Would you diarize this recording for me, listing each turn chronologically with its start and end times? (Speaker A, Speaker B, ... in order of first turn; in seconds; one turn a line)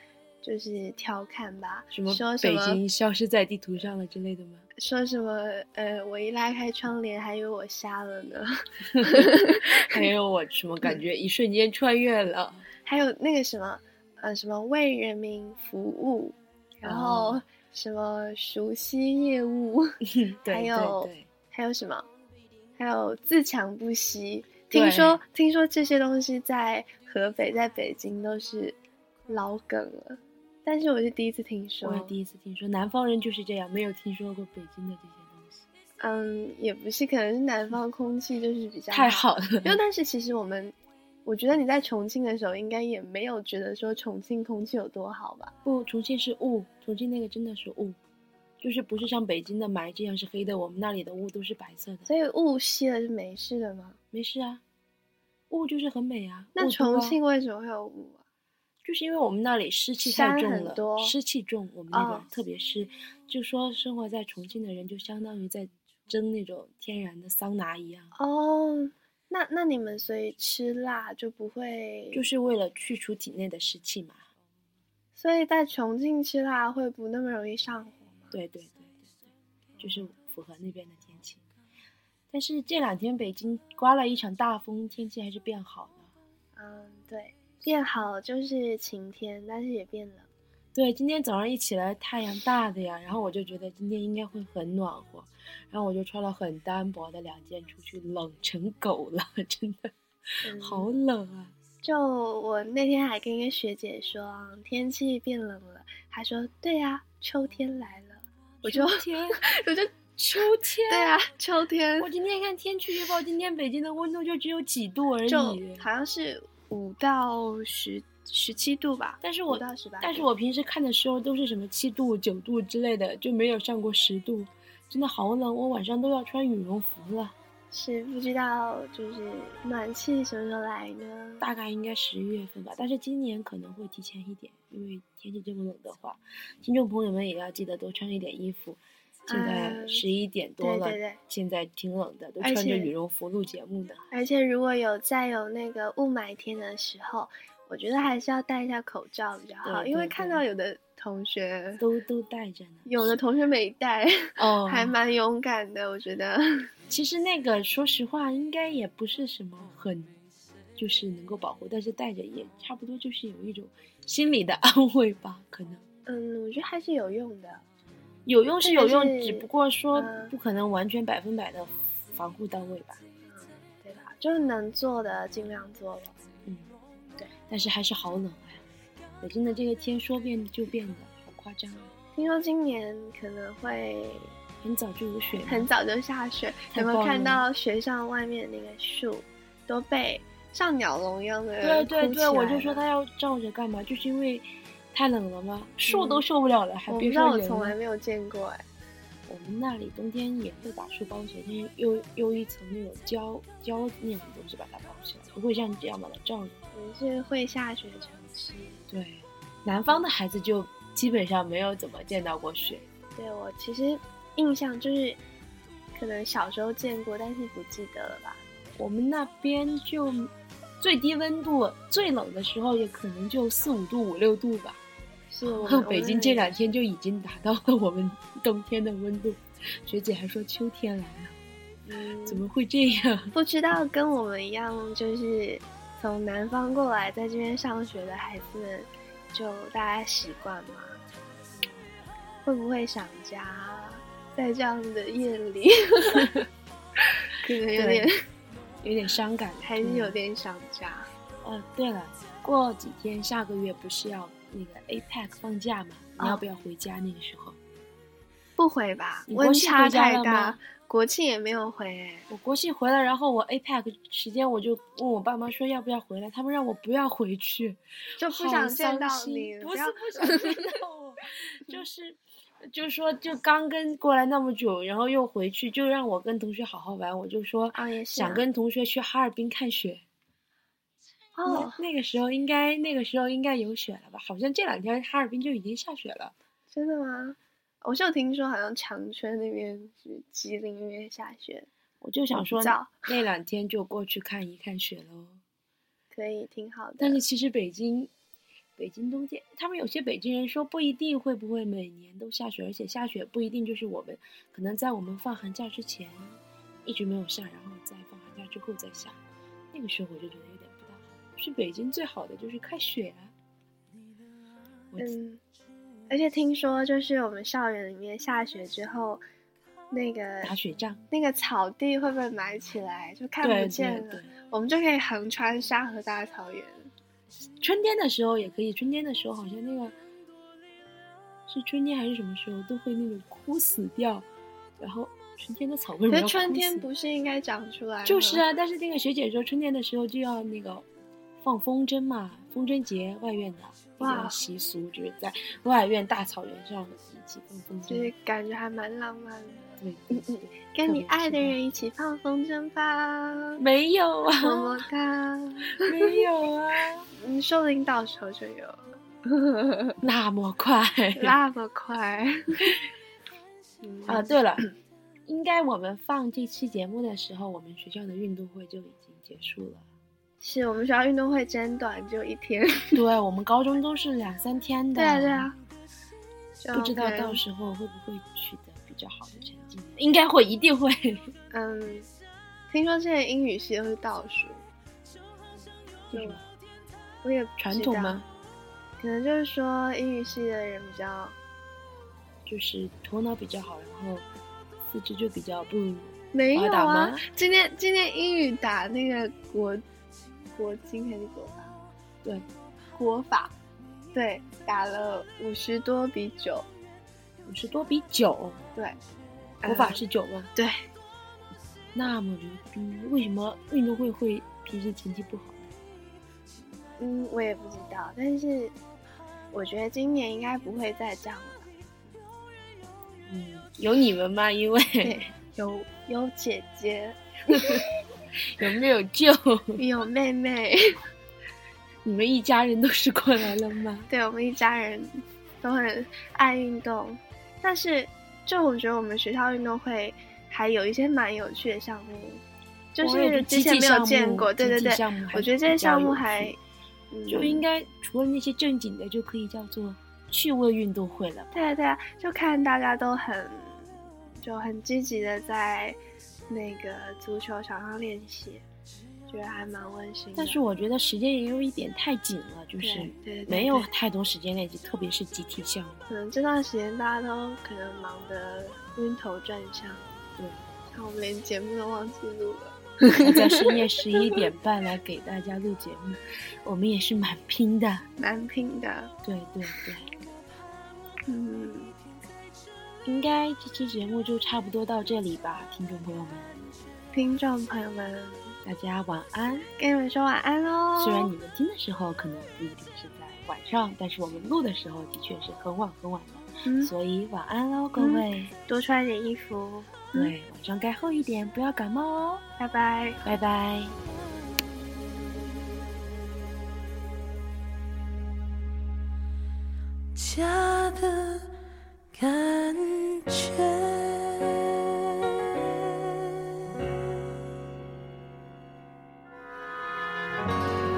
Speaker A: 0.4-2.8
Speaker B: 1.9-4.6
Speaker A: 4.8-10.1
Speaker B: 9.1-12.7
Speaker A: 12.8-22.1
Speaker B: 16.8-17.4
Speaker B: 20.0-21.3
Speaker A: 22.8-32.2
Speaker B: 24.7-25.2
Speaker B: 31.8-35.6
Speaker A: 36.0-45.5
Speaker B: 38.9-39.8
Speaker B: 45.6-48.0
Speaker B: 48.6-52.1
Speaker A: 52.1-54.0
Speaker B: 54.1-54.6
Speaker B: 55.5-57.2
Speaker A: 56.5-58.2
Speaker B: 58.8-68.1
Speaker A: 60.0-61.1
Speaker A: 61.9-62.3
Speaker A: 68.1-72.3
Speaker B: 72.1-74.2
Speaker A: 75.1-78.3
Speaker B: 78.3-79.2
Speaker B: 79.8-81.4
Speaker B: 82.3-86.1
Speaker A: 86.5-90.3
Speaker B: 90.7-99.9
Speaker A: 100.4-100.9
Speaker B: 100.4-101.5
Speaker A: 101.8-109.9
Speaker B: 108.6-109.4
Speaker B: 110.2-111.2
Speaker A: 110.9-112.1
Speaker B: 112.0-115.9
Speaker A: 115.2-120.3
Speaker B: 119.2-127.3
Speaker A: 127.7-131.5
Speaker B: 131.4-144.0
Speaker A: 139.3-140.0
Speaker A: 140.6-141.2
Speaker A: 142.4-142.9
Speaker A: 144.1-151.8
Speaker B: 149.6-150.4
Speaker B: 151.8-153.2
Speaker A: 152.8-156.7
Speaker B: 154.4-155.0
Speaker B: 156.9-160.2
Speaker B: 160.8-165.8
Speaker A: 166.1-167.6
Speaker B: 168.2-173.0
Speaker A: 168.6-170.3
Speaker A: 173.2-176.2
Speaker B: 176.4-176.7
Speaker B: 177.3-178.6
Speaker B: 179.2-181.9
Speaker A: 182.1-184.4
Speaker B: 184.6-185.7
Speaker A: 185.4-192.8
Speaker B: 186.7-187.4
Speaker B: 191.6-197.8
Speaker A: 195.8-196.2
Speaker A: 196.9-198.6
Speaker B: 199.3-206.6
Speaker A: 206.7-208.8
Speaker B: 208.9-212.8
Speaker A: 213.1-215.2
Speaker A: 215.9-218.4
Speaker B: 218.8-224.8
Speaker A: 225.3-226.6
Speaker B: 225.4-231.4
Speaker A: 231.8-232.5
Speaker B: 232.2-233.3
Speaker A: 233.3-241.0
Speaker A: 242.4-246.3
Speaker A: 247.3-248.1
Speaker B: 247.7-248.1
Speaker B: 248.8-250.2
Speaker A: 249.6-251.1
Speaker B: 251.4-257.6
Speaker A: 256.2-256.4
Speaker A: 258.6-262.3
Speaker B: 259.3-260.6
Speaker B: 262.3-280.0
Speaker A: 268.2-270.8
Speaker A: 277.7-278.4
Speaker A: 281.4-281.8
Speaker B: 281.4-286.3
Speaker A: 286.7-291.7
Speaker B: 292.0-295.4
Speaker A: 292.3-293.0
Speaker A: 296.1-297.2
Speaker B: 297.0-298.1
Speaker B: 298.8-309.2
Speaker B: 309.7-313.3
Speaker A: 315.0-315.4
Speaker A: 316.1-319.2
Speaker A: 319.9-320.5
Speaker B: 320.4-321.0
Speaker A: 321.1-326.9
Speaker B: 323.4-324.3
Speaker B: 327.6-329.9
Speaker B: 331.5-334.3
Speaker B: 334.8-336.9
Speaker A: 336.1-338.4
Speaker B: 338.0-340.8
Speaker B: 341.4-348.1
Speaker A: 344.0-344.4
Speaker A: 347.9-353.6
Speaker B: 349.8-351.6
Speaker B: 353.6-354.9
Speaker A: 354.4-356.2
Speaker B: 355.8-357.1
Speaker A: 357.1-359.9
Speaker B: 360.0-361.4
Speaker A: 361.1-362.7
Speaker A: 363.8-364.6
Speaker B: 364.1-364.6
Speaker B: 365.2-369.8
Speaker A: 370.4-373.0
Speaker B: 372.9-375.5
Speaker A: 374.9-375.5
Speaker A: 376.6-377.4
Speaker B: 376.7-381.3
Speaker A: 381.5-382.1
Speaker A: 382.7-384.6
Speaker B: 386.1-386.4
Speaker A: 386.1-386.4
Speaker A: 387.2-388.2
Speaker B: 387.6-388.3
Speaker A: 389.0-391.4
Speaker B: 392.4-394.2
Speaker B: 394.9-397.2
Speaker A: 396.3-399.8
Speaker A: 400.5-401.7
Speaker A: 402.9-403.5
Speaker A: 404.1-406.6
Speaker B: 407.4-408.6
Speaker A: 409.6-410.0
Speaker B: 409.6-410.5
Speaker A: 410.5-410.9
Speaker B: 411.9-415.7
Speaker A: 417.0-418.7
Speaker A: 419.5-421.7
Speaker B: 423.3-425.2
Speaker A: 425.0-427.8
Speaker B: 428.6-429.8
Speaker A: 429.8-430.9
Speaker B: 432.0-434.1
Speaker A: 434.1-442.4
Speaker A: 442.9-446.6
Speaker B: 443.0-446.6
Speaker A: 447.1-447.6
Speaker B: 447.3-451.5
Speaker A: 451.5-453.9
Speaker A: 454.4-458.6
Speaker A: 459.3-460.6
Speaker B: 460.4-466.0
Speaker A: 462.8-463.9
Speaker A: 466.1-470.0
Speaker B: 470.4-470.6
Speaker A: 470.9-473.7
Speaker B: 473.1-478.0
Speaker A: 478.2-479.1
Speaker B: 479.2-480.1
Speaker A: 481.3-481.9
Speaker B: 483.0-486.5
Speaker A: 487.1-488.6
Speaker B: 488.6-489.7
Speaker A: 489.7-491.3
Speaker B: 491.0-498.5
Speaker A: 496.6-496.9
Speaker A: 498.0-500.3
Speaker B: 500.1-502.4
Speaker A: 502.6-503.2
Speaker B: 503.2-504.0
Speaker C: 510.1-511.5
Speaker C: 512.1-514.6